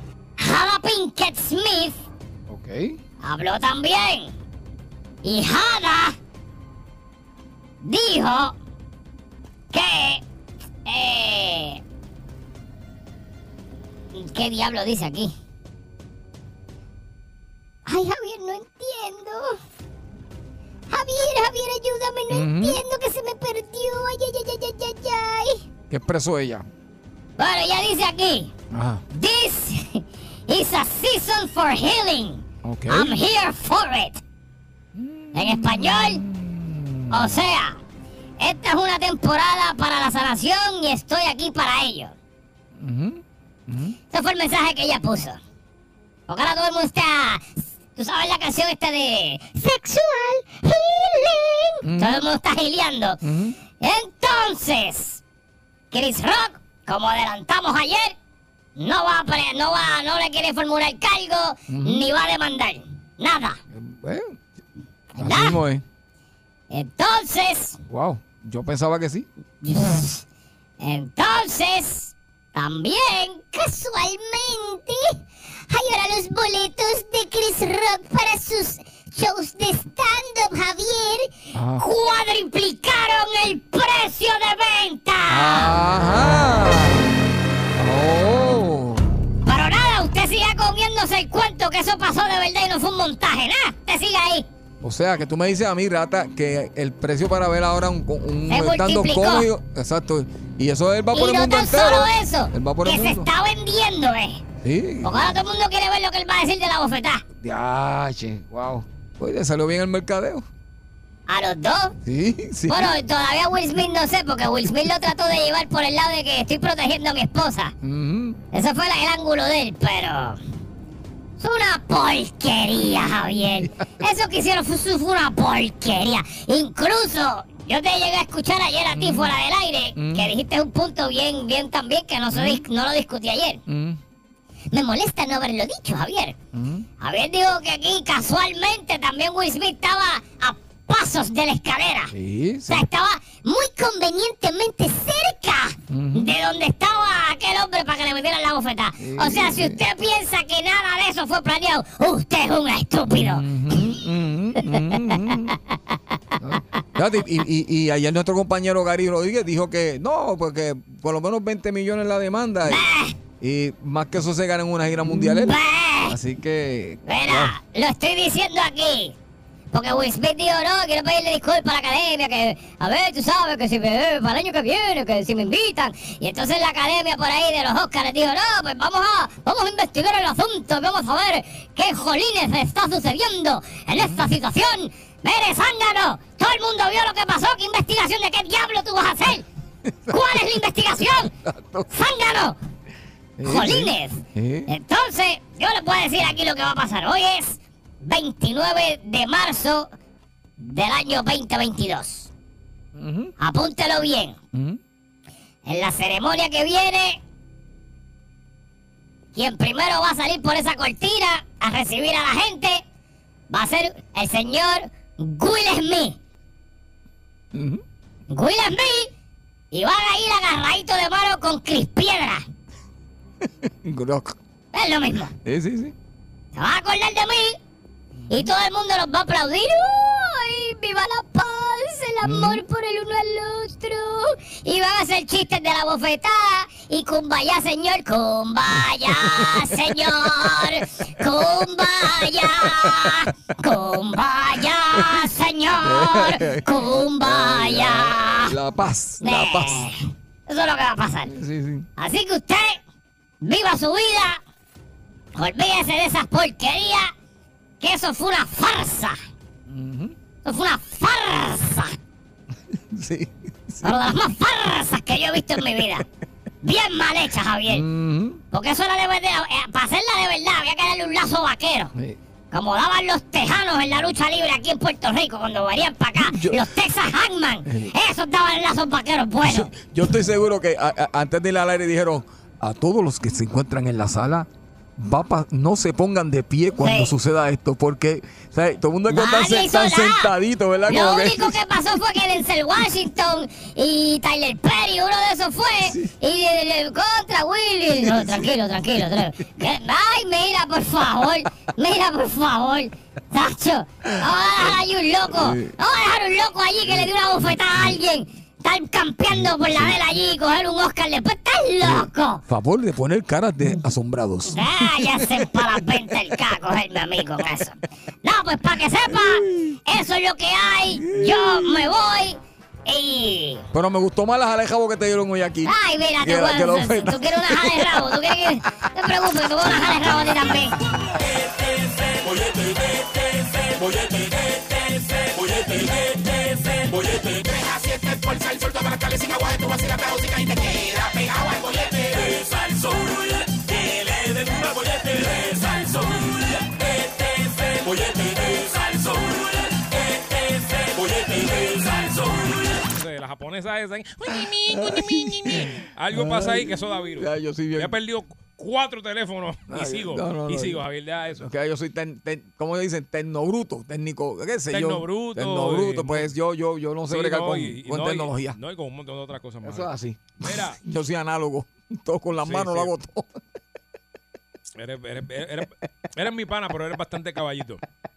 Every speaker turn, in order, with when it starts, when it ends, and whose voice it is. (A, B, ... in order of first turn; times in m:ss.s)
0:00.4-0:02.0 A
0:02.5-0:03.0 B
0:03.2-0:04.3 A
0:05.2-0:06.2 A
0:07.8-0:08.6 A
0:09.7-0:10.2 A
0:10.8-0:11.8 A
0:14.1-0:15.3 A
0:17.9-0:19.6 A
0:20.9-0:25.6 A
0:22.3-0:22.8 B
0:25.9-0:26.7 B
0:27.4-0:28.5 A
0:28.7-0:29.0 B
0:29.1-0:34.2 A
0:32.6-0:33.2 B
0:34.9-0:37.4 B
0:35.3-0:36.2 A
0:37.1-0:37.8 A
0:38.4-0:42.1 A
0:42.8-0:44.0 B
0:44.1-0:45.4 A
0:46.3-0:53.2 A
0:51.8-0:52.2 B
0:53.2-0:53.6 B
0:53.8-0:55.2 A
0:55.9-0:58.2 A
0:58.8-1:03.6 A
1:01.7-1:02.1 B
1:03.7-1:04.4 B
1:05.1-1:05.6 A
1:05.2-1:05.8 B
1:06.7-1:07.8 A
1:07.9-1:09.3 B
1:09.6-1:10.2 A
1:10.8-1:25.7 A
1:21.5-1:21.8 B
1:25.3-1:27.2 B
1:27.7-1:29.1 B
1:29.4-1:34.5 A
1:34.8-1:43.3 B
1:38.5-1:39.5 A
1:41.1-1:44.4 A
1:44.6-1:45.2 B
1:45.0-1:47.2 A
1:47.4-1:50.4 B
1:51.3-1:51.9 A
1:52.0-1:52.9 B
1:52.7-1:57.7 A
1:57.8-1:58.4 B
1:58.5-2:00.4 A
2:01.4-2:13.6 A
2:08.9-2:09.3 B
2:10.0-2:10.3 B
2:12.3-2:12.6 B
2:13.7-2:14.0 B
2:14.7-2:16.4 A
2:16.5-2:16.8 B
2:17.0-2:22.1 A
2:22.1-2:22.9 B
2:22.7-2:33.9 A
2:25.9-2:26.4 B
2:29.0-2:29.8 B
2:33.1-2:35.6 B
2:34.6-2:35.5 A
2:36.4-2:42.9 B
2:42.7-2:43.2 A
2:43.4-2:47.6 B
2:45.2-2:46.2 A
2:47.1-2:49.2 A
2:49.7-3:09.4 A
3:04.0-3:04.2 B
3:09.8-3:10.4 B
3:10.1-3:11.3 A
3:11.4-3:11.9 B
3:11.9-3:12.6 A
3:13.4-3:14.7 B
3:13.4-3:19.9 A
3:20.6-3:22.3 A
3:22.9-3:23.3 B
3:23.4-3:24.4 A
3:24.5-3:24.8 B
3:25.6-3:27.2 A
3:29.4-3:32.8 A
3:33.5-3:36.2 A
3:37.5-3:37.8 B
3:38.3-3:39.1 A
3:39.7-3:42.4 A
3:43.4-3:44.4 B
3:44.7-3:45.3 A
3:45.4-3:45.9 B
3:46.6-3:47.6 A
3:48.2-3:48.5 B
3:48.3-4:08.6 A
3:52.2-3:52.6 B
3:59.1-4:00.8 B
4:02.2-4:03.3 B
4:04.9-4:05.3 B
4:05.8-4:09.9 B
4:09.2-4:11.3 A
4:11.3-4:11.9 B
4:12.0-4:12.8 A
4:13.4-4:14.4 A
4:15.4-4:17.1 A
4:17.8-4:19.2 A
4:19.7-4:20.2 B
4:20.4-4:22.0 A
4:22.7-4:23.9 B
4:23.8-4:26.0 A
4:26.6-4:27.8 A
4:27.7-4:28.4 B
4:28.5-4:31.9 A
4:32.5-4:39.7 A
4:36.2-4:36.7 B
4:37.6-4:37.9 B
4:39.4-4:51.6 B
4:46.8-4:47.1 A
4:49.1-4:50.3 A
4:50.9-5:12.4 A
4:55.8-4:56.1 B
4:58.0-4:58.5 B
5:04.1-5:05.8 B
5:09.3-5:10.0 B
5:11.8-5:16.1 B
5:14.5-5:23.6 A
5:19.1-5:19.8 B
5:21.0-5:21.9 B
5:23.7-5:28.0 B
5:25.6-5:30.8 A
5:29.8-5:30.6 B
5:31.2-5:52.9 C
5:52.9-6:01.5 D
5:54.7-5:58.0 B
5:59.7-6:08.6 B
6:04.7-6:06.3 D
6:07.1-6:10.8 D
6:09.6-6:13.4 B
6:12.4-6:12.9 D
6:14.8-6:17.8 D